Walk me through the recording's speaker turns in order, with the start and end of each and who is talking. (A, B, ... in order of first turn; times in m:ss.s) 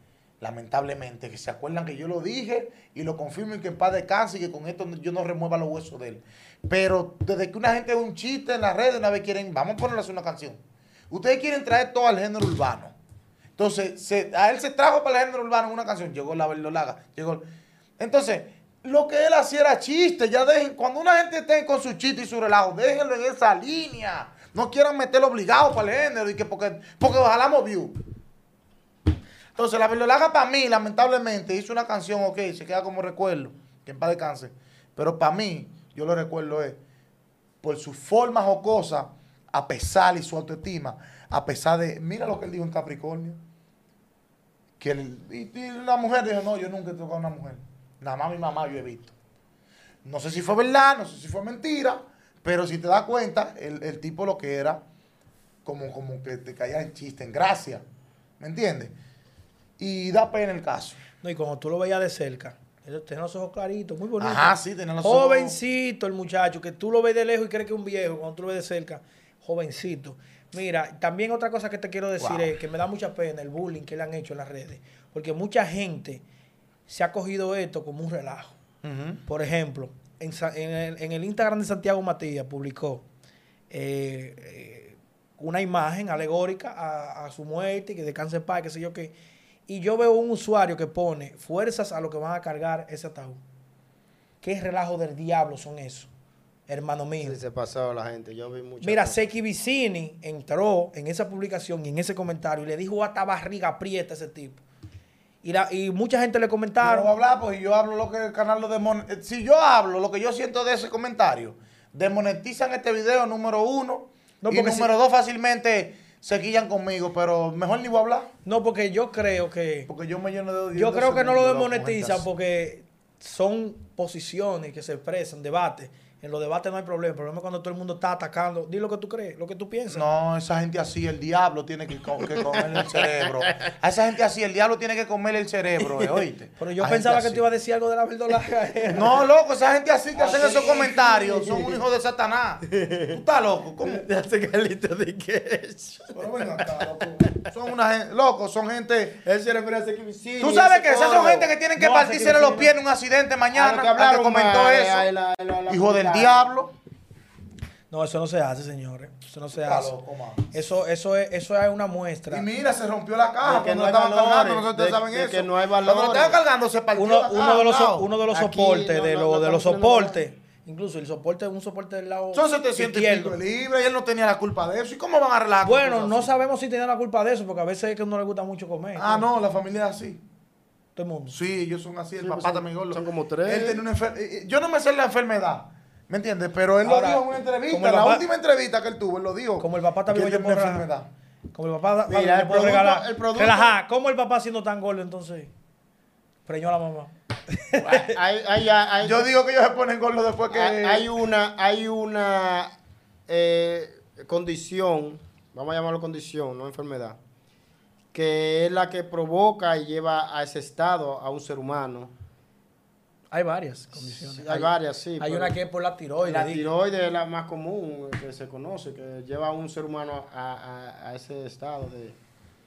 0:00.4-0:13.0 A
0:13.6-0:17.4 A
0:18.0-0:28.0 A
0:29.6-0:36.8 A
0:37.6-0:43.4 A
0:44.8-0:49.1 A
0:50.0-0:54.8 A
0:55.6-0:57.8 A
0:58.4-0:58.9 A
0:59.8-1:01.0 A
1:01.2-1:16.2 B
1:04.2-1:05.6 A
1:12.2-1:12.5 A
1:16.9-1:18.5 B
1:18.8-1:19.2 A
1:19.2-1:23.0 B
1:23.7-1:29.1 B
1:29.7-1:33.4 B
1:34.4-1:36.1 B
1:36.7-1:37.4 B
1:37.2-1:39.3 C
1:38.8-1:44.6 B
1:45.4-1:47.1 B
1:46.8-1:58.3 A
1:54.4-1:54.9 B
1:58.4-1:59.9 B
1:59.9-2:01.8 A
2:00.7-2:10.0 B
2:01.7-2:02.2 C
2:09.9-2:17.4 A
2:12.5-2:13.7 C
2:16.6-2:19.2 B
2:18.9-2:24.0 A
2:20.2-2:21.8 C
2:22.6-2:23.2 C
2:23.8-2:27.5 C
2:26.1-2:29.2 A
2:29.2-2:31.5 C
2:30.4-2:35.1 A
2:31.8-2:32.7 B
2:33.5-2:36.5 C
2:35.7-2:36.7 A
2:37.9-2:39.9 B
2:39.5-2:40.5 A
2:40.5-2:42.4 B
2:42.3-2:48.1 A
2:43.4-2:46.4 C
2:47.0-2:53.4 B
2:48.3-2:50.2 C
2:52.3-2:56.3 A
2:55.6-2:59.2 B
2:59.0-3:00.2 A
3:01.0-3:01.3 B
3:01.3-3:11.1 A
3:02.2-3:03.8 C
3:06.8-3:08.2 B
3:09.6-3:10.8 B
3:11.5-3:15.5 B
3:12.1-3:13.7 C
3:16.5-3:18.1 B
3:18.1-3:19.3 C
3:19.0-3:21.1 A
3:20.5-3:22.7 C
3:23.3-3:27.2 C
3:28.1-3:32.1 C
3:33.3-3:36.6 B
3:34.0-3:35.5 C
3:36.2-3:42.2 C